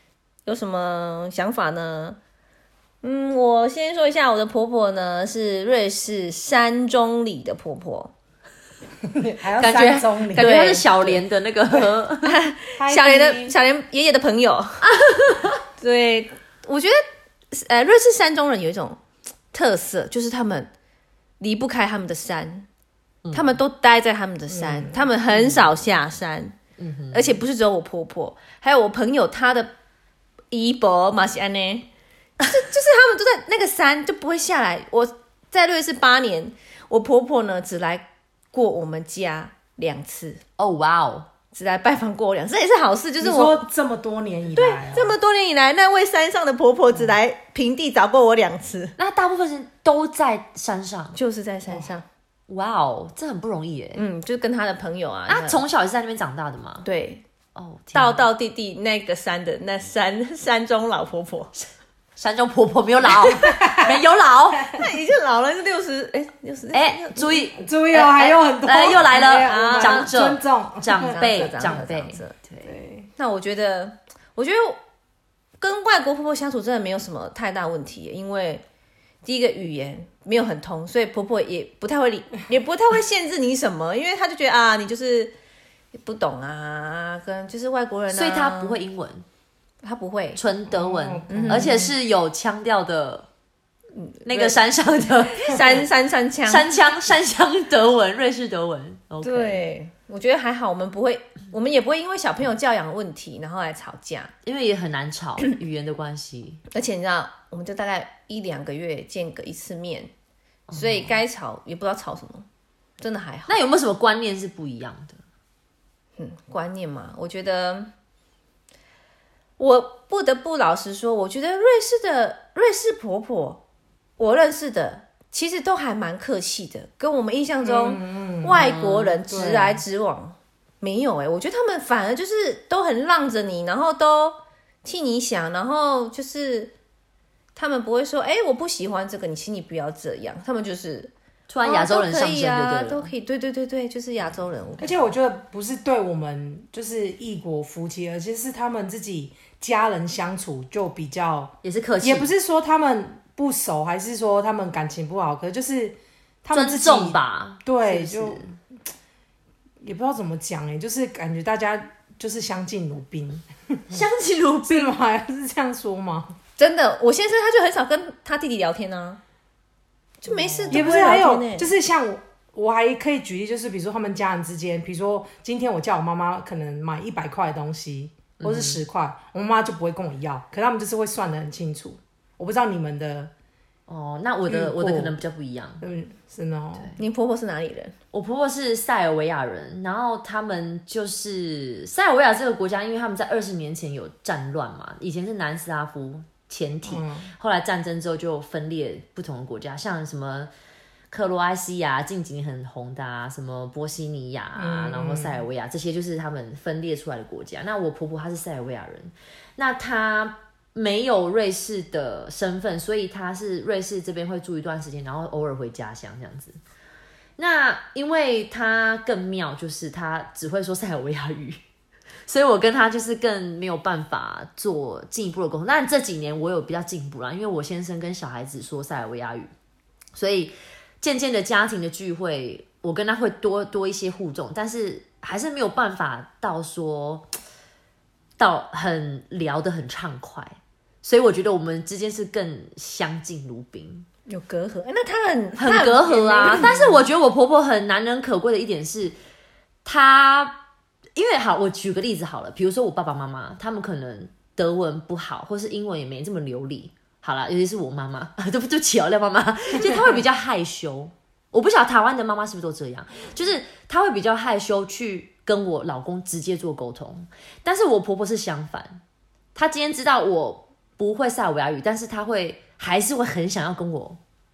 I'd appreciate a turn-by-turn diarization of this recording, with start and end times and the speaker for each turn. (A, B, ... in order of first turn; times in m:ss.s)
0:00.4-0:02.2 A
0:03.0-0:08.1 A
0:09.1-0:10.5 B
0:09.6-0:12.4 C
0:10.3-0:11.1 A
0:12.2-0:14.9 A
0:12.8-0:13.6 B
0:15.8-0:17.0 A
0:17.5-0:19.0 A
0:19.5-0:20.7 A
0:21.4-0:22.7 A
0:23.2-0:23.5 C
0:23.3-0:26.6 A
0:24.5-0:25.2 B
0:26.8-0:27.4 C
0:27.1-0:29.7 A
0:30.5-0:31.9 A
0:32.4-0:40.4 A
0:40.6-0:41.3 C
0:41.5-0:43.7 A
0:43.2-0:45.2 B
0:44.5-0:48.9 A
0:46.9-0:47.2 B
0:49.0-0:51.2 C
0:51.1-0:52.0 A
0:52.5-0:54.0 C
0:53.9-0:55.6 A
0:55.3-0:56.8 C
0:56.8-0:57.2 A
0:57.6-0:58.2 C
0:57.9-1:01.5 A
1:02.2-1:04.8 C
1:03.4-1:04.0 B
1:04.8-1:08.4 A
1:06.7-1:07.6 C
1:07.6-1:11.2 B
1:08.2-1:12.7 C
1:09.2-1:10.1 A
1:10.9-1:12.4 A
1:12.6-1:13.1 B
1:13.1-1:14.8 A
1:15.6-1:18.6 A
1:19.2-1:25.3 A
1:26.0-1:28.8 A
1:28.1-1:29.2 C
1:29.8-1:30.4 A
1:30.3-1:33.3 C
1:30.7-1:31.9 B
1:31.3-1:31.8 A
1:33.9-1:34.6 A
1:34.2-1:35.8 C
1:35.4-1:36.7 A
1:36.4-1:39.6 C
1:39.2-1:44.3 A
1:44.4-1:46.6 C
1:46.7-1:50.1 A
1:50.7-1:51.2 C
1:50.7-1:52.4 A
1:53.0-1:53.6 A
1:53.5-1:55.2 C
1:56.2-1:57.9 A
1:59.6-2:03.6 A
2:04.2-2:16.7 A
2:07.6-2:08.7 B
2:08.5-2:09.2 C
2:09.3-2:09.8 B
2:17.5-2:25.0 A
2:21.5-2:23.1 C
2:24.8-2:38.6 B
2:31.6-2:32.3 C
2:36.5-2:38.5 C
2:39.8-2:44.1 B
2:43.9-2:45.0 C
2:44.7-2:46.3 B
2:46.6-2:49.2 A
2:50.2-2:51.7 A
2:50.3-2:51.0 C
2:50.7-3:03.3 B
2:58.4-2:58.8 C
3:03.9-3:05.8 C
3:04.4-3:05.2 B
3:05.8-3:06.9 B
3:07.0-3:07.9 A
3:08.1-3:20.5 C
3:16.8-3:17.3 B
3:21.1-3:36.6 C
3:24.5-3:25.4 B
3:37.4-3:41.6 C
3:42.3-3:49.5 C
3:50.1-3:57.3 C
3:58.4-4:04.0 C
4:04.3-4:06.9 A
4:05.6-4:09.2 C
4:06.4-4:06.9 B
4:09.8-4:10.6 C
4:11.2-4:29.0 C
4:19.8-4:20.2 B
4:29.5-4:34.2 C